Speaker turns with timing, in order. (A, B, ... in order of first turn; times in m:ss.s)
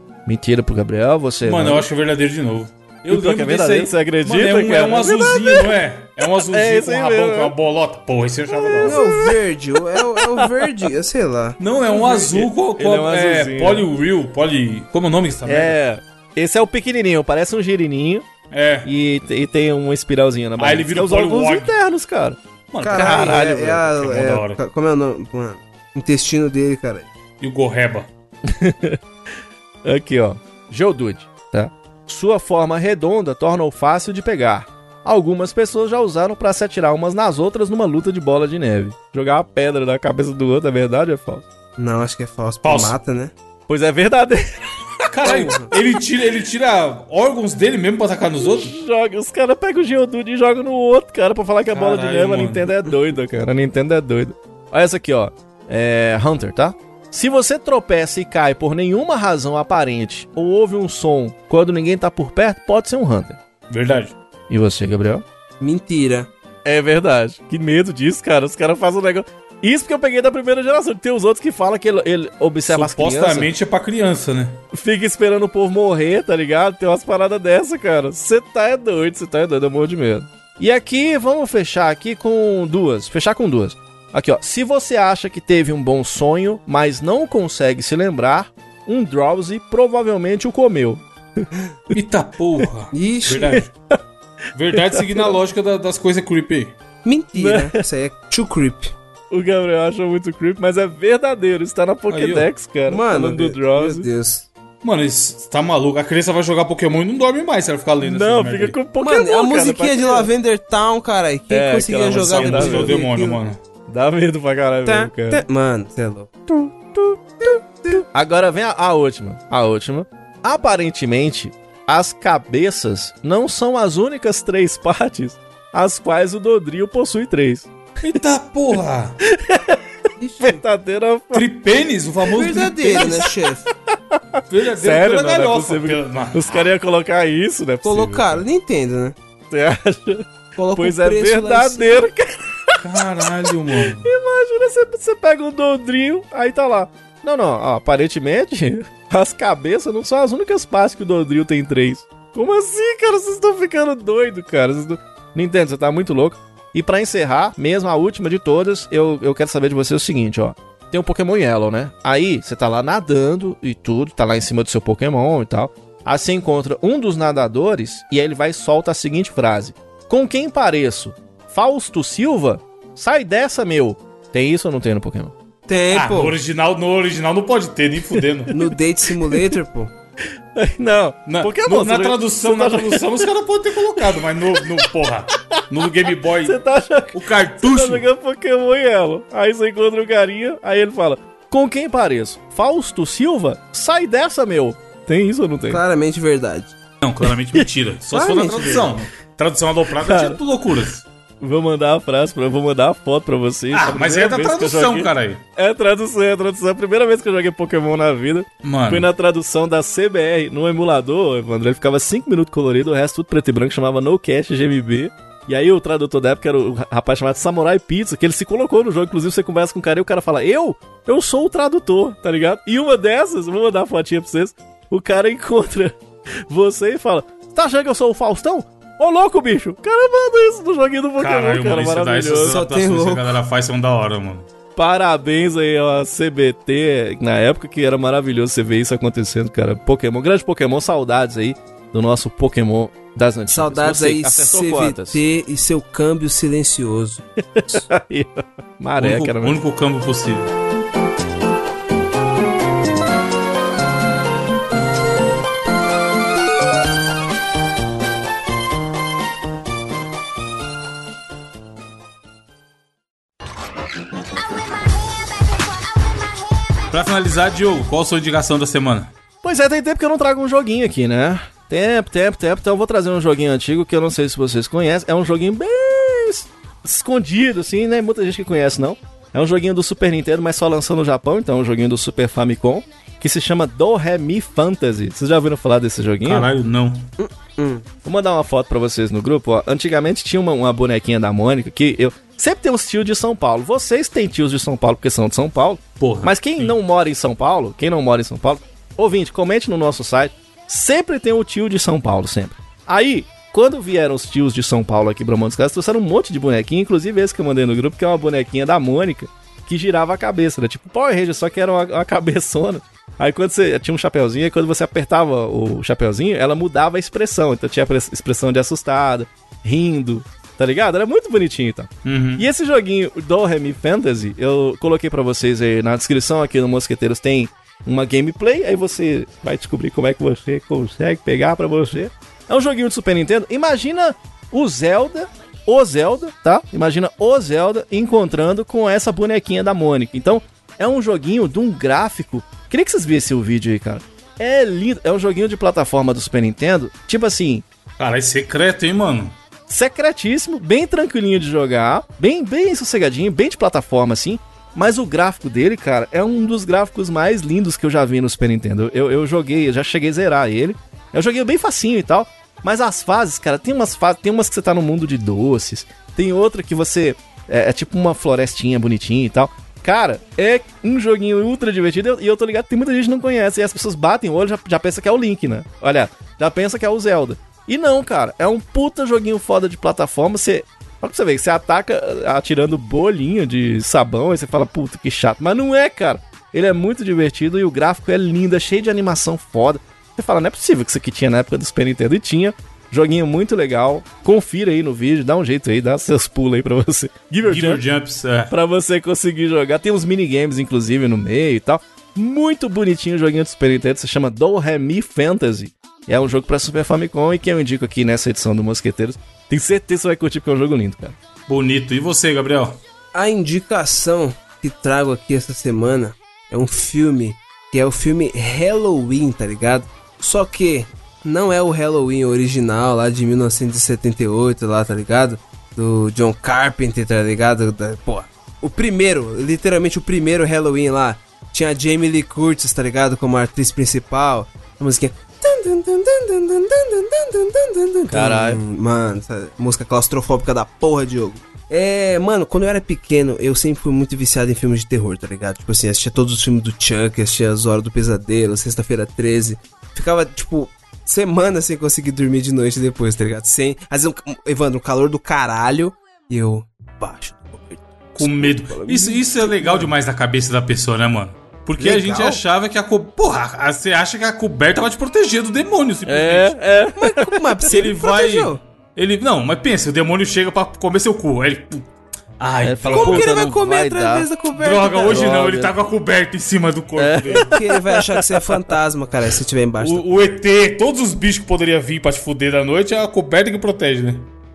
0:00.2-0:01.8 A
0:01.4-0:09.0 B
0:03.1-0:05.8 A
0:06.5-0:07.5 A
0:08.5-0:09.4 A
0:08.8-0:11.6 C
0:10.2-0:10.8 A
0:11.6-0:15.8 B
0:11.9-0:13.8 A
0:15.4-0:18.3 A
0:18.5-0:18.9 B
0:18.8-0:22.4 A
0:20.6-0:21.7 B
0:22.7-0:24.6 B
0:22.8-0:27.1 C
0:22.9-0:23.8 A
0:27.4-0:28.1 B
0:28.4-0:29.0 A
0:29.8-0:41.4 A
0:41.8-0:43.3 C
0:42.6-0:43.0 B
0:43.7-0:44.5 A
0:45.1-0:48.7 B
0:45.2-0:45.7 C
0:48.4-1:03.4 A
0:51.7-0:53.1 B
1:03.7-1:04.1 B
1:04.5-1:05.2 A
1:05.6-1:06.3 C
1:06.6-1:13.5 A
1:12.7-1:14.6 B
1:14.7-1:31.9 A
1:31.9-1:33.7 B
1:32.9-1:33.6 C
1:34.5-1:36.7 B
1:34.7-1:35.3 A
1:37.0-1:38.9 C
1:37.4-1:37.8 A
1:39.3-1:44.1 A
1:42.1-1:42.5 B
1:42.9-1:44.5 C
1:44.8-1:48.8 B
1:48.0-1:50.3 A
1:49.0-1:53.4 C
1:51.5-1:53.0 A
1:52.1-1:53.6 B
1:53.9-1:55.4 A
1:54.8-1:56.3 C
1:56.5-2:07.7 A
1:57.5-1:58.0 C
2:08.0-2:09.2 B
2:09.2-2:09.8 A
2:10.2-2:10.6 C
2:10.4-2:11.5 A
2:11.3-2:13.2 B
2:12.3-2:13.6 C
2:13.9-2:18.4 A
2:14.5-2:16.7 B
2:17.8-2:19.1 C
2:19.5-2:23.2 A
2:20.6-2:22.1 C
2:22.8-2:24.1 B
2:24.0-2:55.3 A
2:55.7-2:56.4 C
2:55.9-2:58.5 B
2:58.5-2:59.9 C
3:00.5-3:03.3 A
3:01.2-3:06.6 B
3:04.0-3:04.8 A
3:06.2-3:15.8 A
3:07.1-3:08.0 B
3:15.7-3:16.7 C
3:17.0-3:21.0 B
3:18.1-3:19.0 C
3:20.0-3:20.4 A
3:21.4-3:52.6 A
3:23.7-3:25.4 B
3:28.6-3:29.1 B
3:51.2-3:54.5 B
3:52.4-3:53.4 C
3:54.8-4:05.2 A
4:03.5-4:07.8 C
4:07.5-4:09.6 A
4:09.0-4:10.5 B
4:26.9-4:29.1 B
4:29.4-4:46.5 A
4:46.2-4:47.1 B
4:47.2-4:47.8 C
4:48.0-5:47.6 A
4:56.0-4:56.8 B
5:22.0-5:22.5 B
5:48.0-5:49.4 B
5:49.7-6:37.8 A
6:37.4-6:38.5 B
6:38.5-6:51.2 A
6:51.5-6:52.8 B
6:53.1-7:39.9 C
7:18.1-7:18.6 A
7:38.1-7:46.6 B
7:41.8-7:42.4 C
7:46.0-7:47.5 A
7:47.0-7:48.6 C
7:47.7-7:53.4 B
7:52.6-7:54.3 A
7:52.9-7:55.3 C
7:54.5-7:57.6 B
7:55.1-7:55.7 A
7:57.0-7:58.5 A
7:57.4-8:00.0 C
7:59.8-8:04.3 B